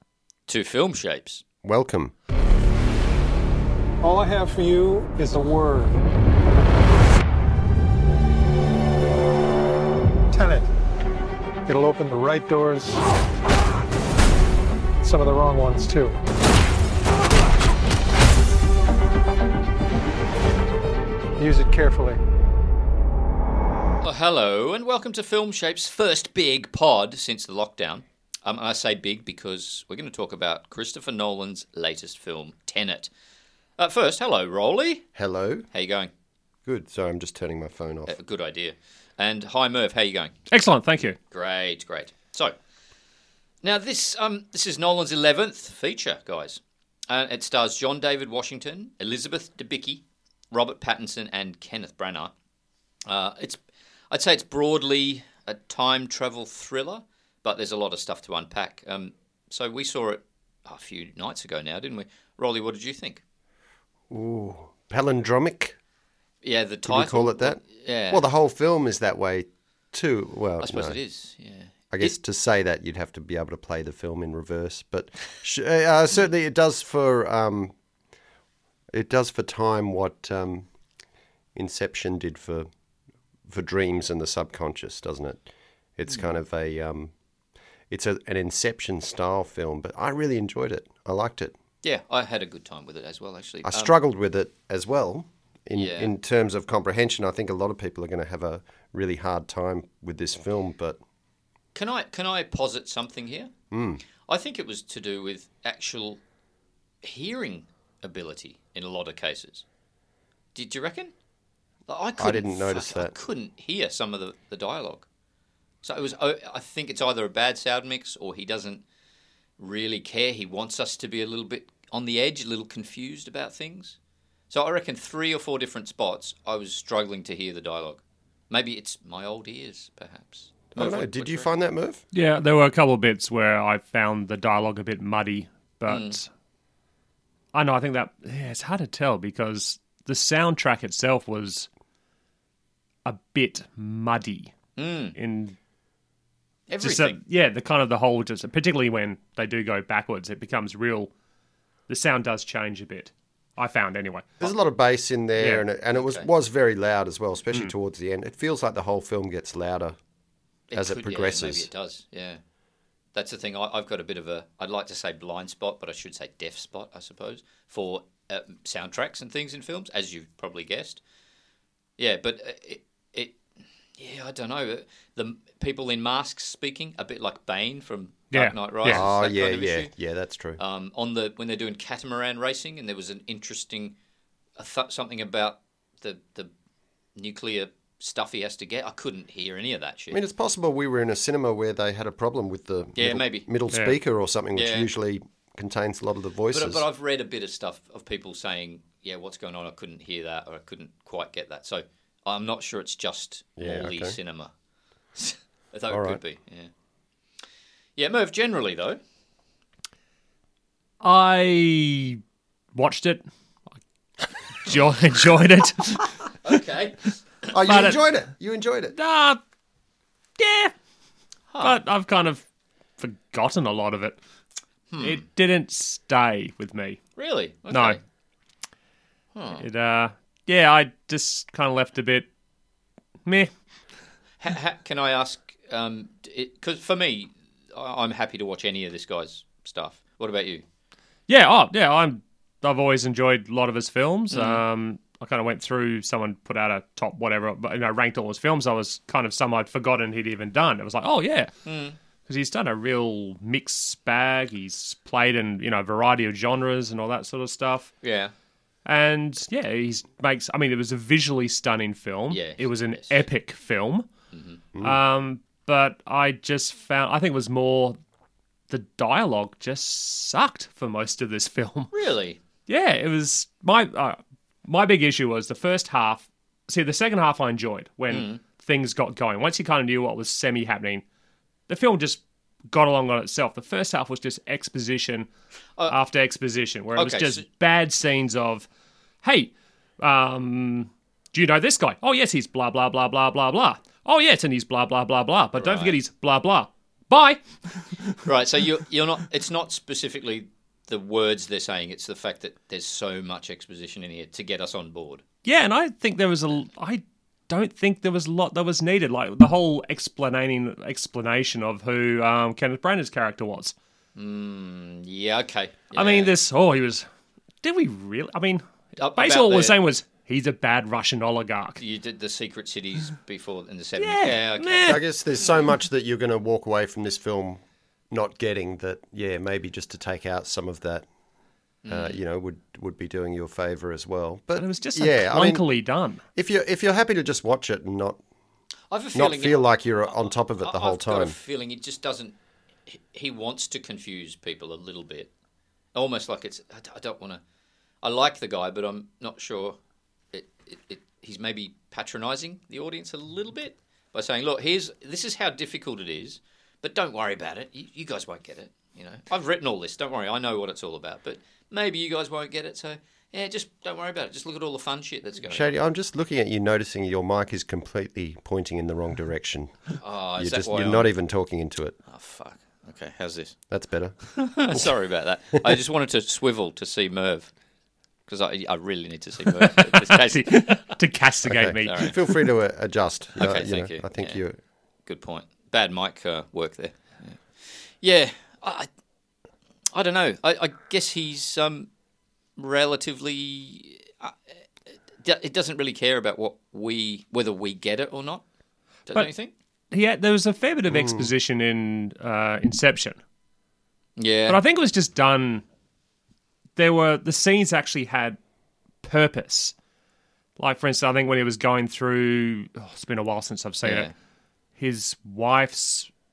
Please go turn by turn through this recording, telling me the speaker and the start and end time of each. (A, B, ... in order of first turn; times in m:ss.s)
0:00.5-0:01.4 A
0:01.6-0:02.1 B
0:04.0-0:06.0 C
0:10.3-0:10.7 C
0:11.6-0:13.0 C
0:15.0-0:16.2 C
0:21.4-0:22.2 C
0:24.0-0:33.1 A
0:33.8-0:35.1 A
0:35.2-0:35.6 B
0:35.7-0:36.1 A
0:36.6-0:38.1 B
0:38.1-0:40.4 A
0:40.5-0:41.2 D
0:41.3-0:42.5 A
0:43.6-0:52.3 A
0:53.0-0:53.6 A
0:54.1-1:03.2 A
1:04.1-1:05.8 B
1:06.4-1:08.3 A
1:06.8-1:11.0 B
1:10.6-1:12.1 A
1:11.9-1:17.7 B
1:18.9-1:20.7 B
1:21.5-1:22.7 B
1:23.5-1:25.4 B
1:26.0-1:27.1 B
1:27.9-1:31.6 B
1:31.8-1:33.9 A
1:33.6-1:41.0 B
1:35.7-1:36.1 A
1:41.7-1:43.5 A
1:43.7-1:44.0 B
1:44.3-1:46.2 A
1:47.0-1:49.6 A
1:50.5-1:51.1 A
1:51.9-1:55.0 A
1:52.2-1:53.1 B
1:55.8-1:58.8 A
1:59.6-2:04.0 A
2:04.5-2:11.5 A
2:10.7-2:12.0 B
2:12.1-2:16.3 D
2:15.9-2:16.2 A
2:17.5-2:21.7 D
2:23.0-2:24.5 D
2:24.8-2:25.2 A
2:25.2-2:25.6 D
2:26.7-2:27.2 A
2:26.8-2:31.1 D
2:31.9-2:34.3 D
2:34.4-2:40.0 B
2:35.9-2:36.3 A
2:40.7-2:42.4 A
2:40.7-2:41.7 B
2:43.1-2:51.0 A
2:52.0-2:53.4 A
2:54.0-2:59.9 A
2:58.3-2:59.0 D
2:58.8-3:00.6 B
3:00.6-3:03.9 A
3:04.6-3:06.5 A
3:07.2-3:10.2 A
3:10.1-3:16.8 B
3:13.0-3:13.5 A
3:13.7-3:14.0 D
3:14.5-3:14.9 A
3:16.5-3:24.5 A
3:23.6-3:24.2 B
3:25.2-3:26.7 A
3:25.9-3:26.2 B
3:28.0-3:29.0 A
3:31.0-3:32.2 D
3:32.7-3:33.2 D
3:34.6-3:36.6 D
3:36.4-3:37.1 A
3:37.5-3:38.9 B
3:37.7-3:38.0 D
3:38.9-3:39.4 D
3:40.4-3:40.7 D
3:41.5-3:41.8 A
3:41.6-3:42.4 D
3:43.0-3:44.2 D
3:44.9-3:45.2 A
3:45.0-3:47.0 D
3:47.2-3:48.0 A
3:47.7-3:48.0 D
3:49.3-3:49.6 A
3:49.6-3:52.3 D
3:54.4-4:00.6 A
4:01.3-4:11.5 D
4:04.3-4:04.6 A
4:11.6-4:12.0 A
4:12.3-4:17.9 D
4:18.0-4:18.3 A
4:18.8-4:24.1 D
4:22.3-4:23.2 A
4:24.3-4:24.6 A
4:24.8-4:28.0 D
4:28.7-4:31.9 D
4:31.9-4:32.4 A
4:32.7-4:41.0 D
4:38.1-4:38.4 A
4:41.7-4:45.3 D
4:45.9-4:48.7 D
4:47.0-4:47.4 A
4:49.2-4:58.2 D
4:55.6-4:55.9 A
4:58.2-5:05.2 A
5:05.4-5:13.7 D
5:14.1-5:16.3 A
5:15.9-5:17.0 D
5:17.6-5:18.6 D
5:19.0-5:19.8 A
5:19.1-5:21.8 D
5:21.8-5:25.0 A
5:24.0-5:25.0 D
5:24.8-5:27.6 B
5:28.1-5:31.0 B
5:31.8-5:32.2 A
5:31.9-5:35.6 B
5:34.6-5:36.2 D
5:36.3-5:38.2 B
5:38.9-5:42.3 A
5:39.1-5:41.4 B
5:42.9-5:45.3 A
5:45.9-5:47.4 A
5:48.0-5:49.8 A
5:50.3-6:05.7 A
6:05.5-6:12.0 B
6:10.0-6:11.1 A
6:12.1-6:13.6 A
6:13.7-6:14.8 B
6:14.3-6:17.5 A
6:18.3-6:21.0 A
6:19.5-6:22.0 D
6:21.4-6:24.6 B
6:21.8-6:22.2 A
6:23.4-6:24.4 A
6:25.0-6:28.9 A
6:29.9-6:31.9 A
6:32.6-6:34.3 A
6:35.2-6:38.4 A
6:39.1-6:39.5 A
6:39.9-6:43.2 D
6:40.9-6:41.3 B
6:44.2-6:44.6 A
6:44.5-6:45.6 D
6:46.8-6:48.4 D
6:49.0-6:49.7 D
6:50.6-6:54.1 D
6:53.8-6:54.1 A
6:54.8-6:56.1 D